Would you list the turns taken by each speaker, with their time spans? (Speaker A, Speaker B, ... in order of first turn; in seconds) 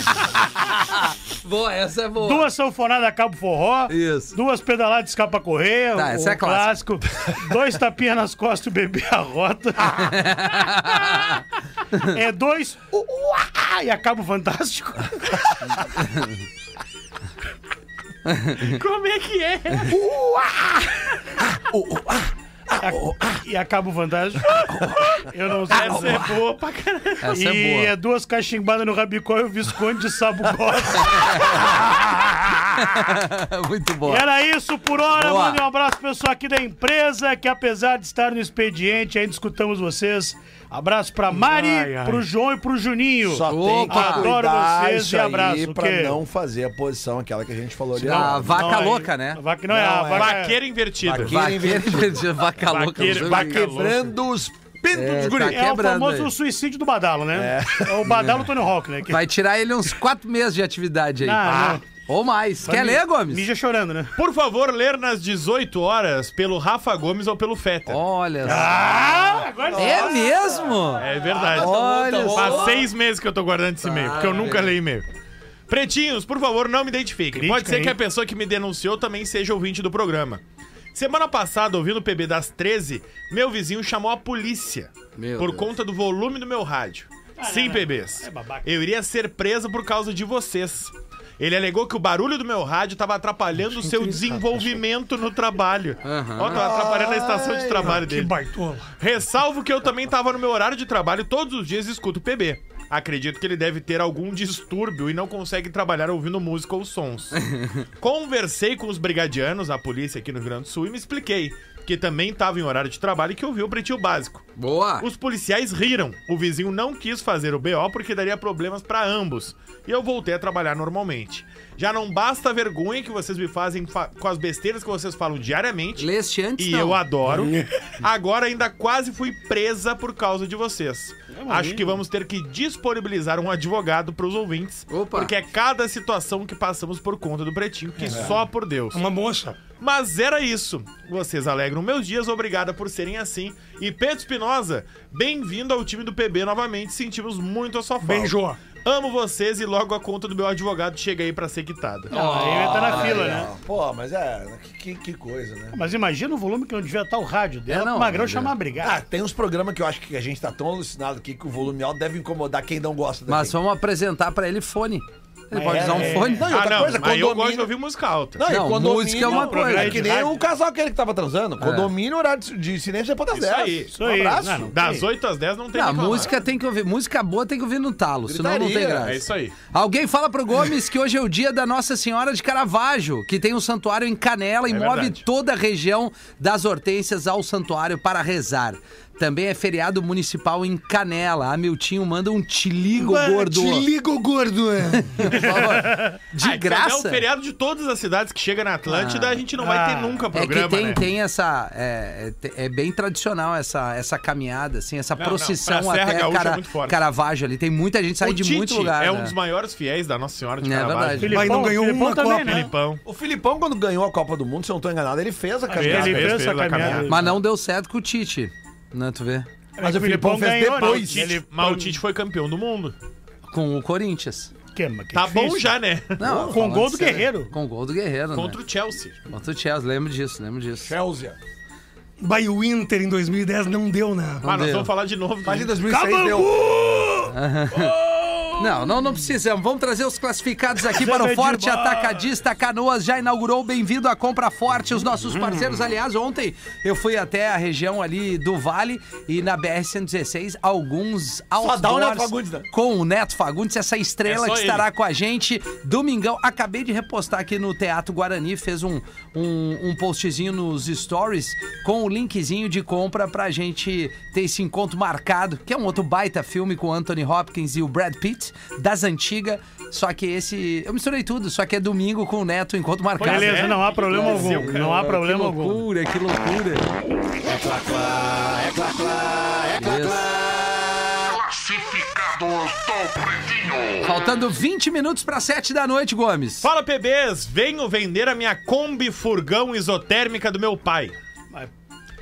Speaker A: 0.8-2.5, 3.9-4.3, 5.9-6.7, 9.9-12.1, 16.1-16.3, 18.3-18.7, 27.2-27.9, 31.1-31.6, 32.7-34.3, 35.1-35.6, 43.5-44.4, 48.0-50.3, 51.2-53.7, 54.9-56.3, 59.1-63.4, 67.9-69.1, 69.7-71.1, 71.6-72.7, 73.8-74.7, 85.2-85.7, 96.0-96.6, 107.3-107.8, 114.6-115.1, 126.0-127.0, 134.9-135.3, 152.1-153.4, 157.7-158.5, 163.3-166.5, 168.5-170.1, 171.6-171.9, 175.7-193.9, 194.9-197.2, 198.9-199.4, 200.3-209.3, 210.6-211.5, 217.1-219.5, 223.5-224.5, 226.2-228.6, 229.3-230.9, 234.4-234.9, 237.2-238.0, 238.6-276.8, 279.8-280.2, 284.0-286.7
Speaker B: 2.2-10.2, 12.1-15.8, 19.9-20.9, 22.8-26.3, 27.3-32.6, 34.1-46.2, 48.0-50.6, 55.4-59.2, 61.2-61.8, 62.6-64.1, 68.4-70.6, 77.3-77.9, 87.4-88.7, 131.4-132.0, 152.1-153.5, 155.7-159.0, 165.5-166.5, 169.2-170.3, 173.9-175.1, 195.3-196.2, 199.6-200.2, 211.2-212.7, 215.7-217.4, 219.8-221.9, 224.7-225.7, 226.5-227.5, 235.9-238.6, 240.9-242.2, 273.2-275.8
Speaker C: 18.6-19.9, 25.7-27.2, 50.1-51.4, 52.6-54.1, 64.2-68.0, 71.0-75.1, 75.7-80.4, 80.9-98.4, 99.0-107.4, 108.0-114.5, 115.0-139.0, 139.8-152.1, 166.5-168.4, 169.7-170.2, 173.3-173.9, 174.7-176.3, 179.0-179.6, 184.7-185.2, 196.4-201.0, 205.2-207.0, 208.2-211.7, 212.4-213.0, 215.8-217.1, 220.7-222.9, 225.1-226.2, 228.3-229.2, 234.4-235.8, 254.2-254.9, 273.2-274.8, 286.6-291.1
Speaker D: 21.6-22.3, 22.9-23.2, 43.2-48.9, 51.0-52.2, 53.0-55.6, 57.3-58.3, 69.8-70.3, 71.1-72.9, 96.5-98.0, 138.1-138.3, 152.5-155.8, 158.8-163.6, 165.7-167.7, 168.3-174.7, 178.2-179.1, 213.1-217.1, 219.8-221.4, 226.2-226.6, 230.8-231.4, 235.4-236.9, 251.6-252.7, 277.4-281.2
Speaker E: 41.4-42.2, 93.8-94.4, 97.8-98.9, 127.3-127.7, 138.9-139.6, 148.0-148.6, 193.0-195.5, 211.3-212.7, 232.2-234.4
Speaker F: 281.4-283.9